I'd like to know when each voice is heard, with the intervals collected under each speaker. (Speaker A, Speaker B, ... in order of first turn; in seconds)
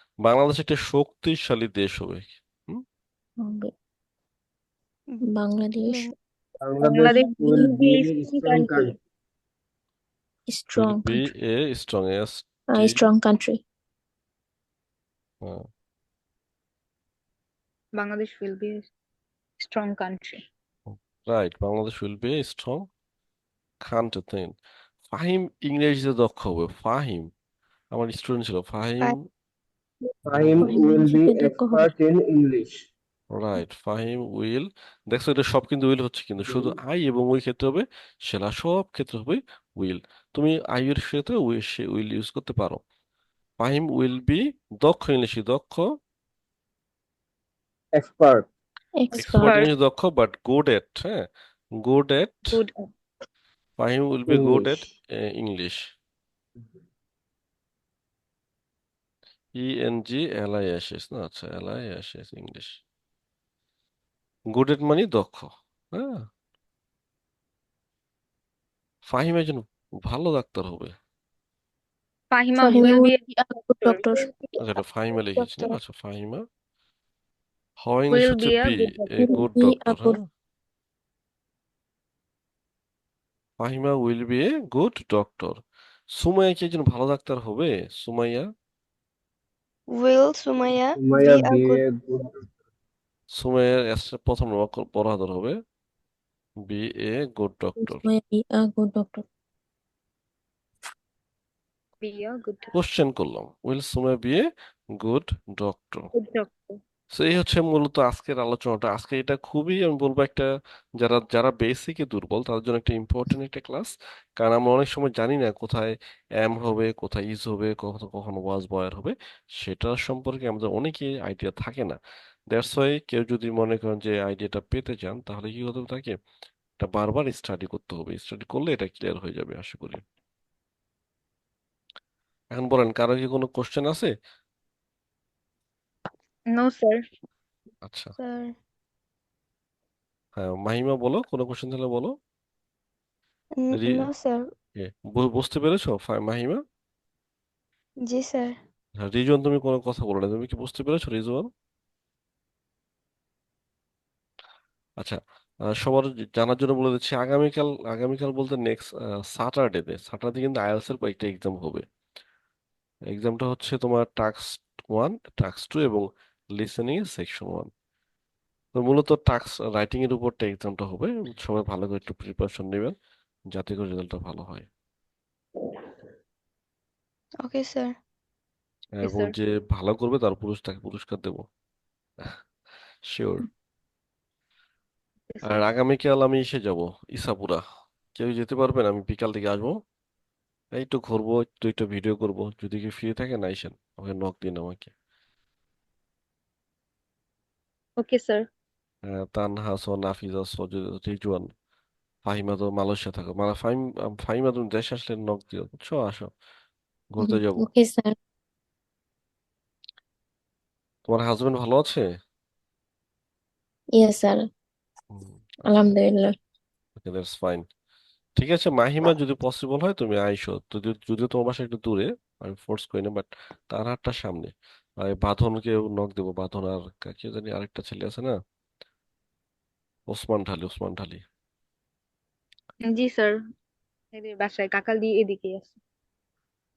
Speaker A: 0.2-2.8, 10.8-13.0, 15.4-15.7, 20.9-22.9, 23.9-24.6, 25.1-27.3, 27.9-29.2, 30.3-30.7, 33.3-42.8, 43.6-45.9, 49.2-51.3, 51.8-52.6, 53.8-55.8, 59.6-62.8, 64.5-66.3, 69.1-70.9, 74.6-76.5, 77.8-80.2, 83.6-85.6, 86.1-88.5, 93.3-95.6, 96.7-98.0, 102.7-104.5, 105.0-106.1, 107.1-110.5, 111.0-122.0, 122.5-126.2, 126.8-130.0, 132.5-134.1, 137.9-138.2, 140.4-142.1, 143.8-144.1, 144.8-146.6, 149.0-151.5, 155.7-161.8, 163.1-167.7, 168.8-172.9, 173.5-174.7, 178.9-181.4, 183.1-183.5, 185.4-187.6, 188.2-189.8, 190.8-194.9, 199.1-201.5, 202.2-206.3, 207.1-207.7, 211.1-212.1, 215.1-215.9, 217.0-217.7, 218.4-228.4, 230.1-231.2
Speaker B: 3.4-3.7, 5.3-6.1, 7.1-7.7, 10.5-11.3, 12.7-13.6, 30.6-31.9, 49.0-49.6, 72.6-74.3, 79.2-80.2, 97.8-99.2, 207.2-208.2, 214.0-214.5, 215.7-216.4
Speaker C: 5.9-6.2, 89.9-91.8, 138.2-138.6, 143.6-144.5, 148.1-148.6, 177.4-178.0
Speaker D: 6.6-9.0, 30.3-32.8, 36.5-36.8, 48.0-48.5, 54.3-54.8, 91.0-92.3
Speaker E: 6.8-8.9, 17.9-18.9, 19.6-20.4, 49.2-49.7, 52.5-52.9, 72.3-73.2, 73.8-74.3, 78.1-79.4, 102.0-102.7, 106.1-106.8, 136.5-137.0, 179.0-179.3, 185.3-185.6, 198.0-198.5, 232.9-233.4, 234.1-235.8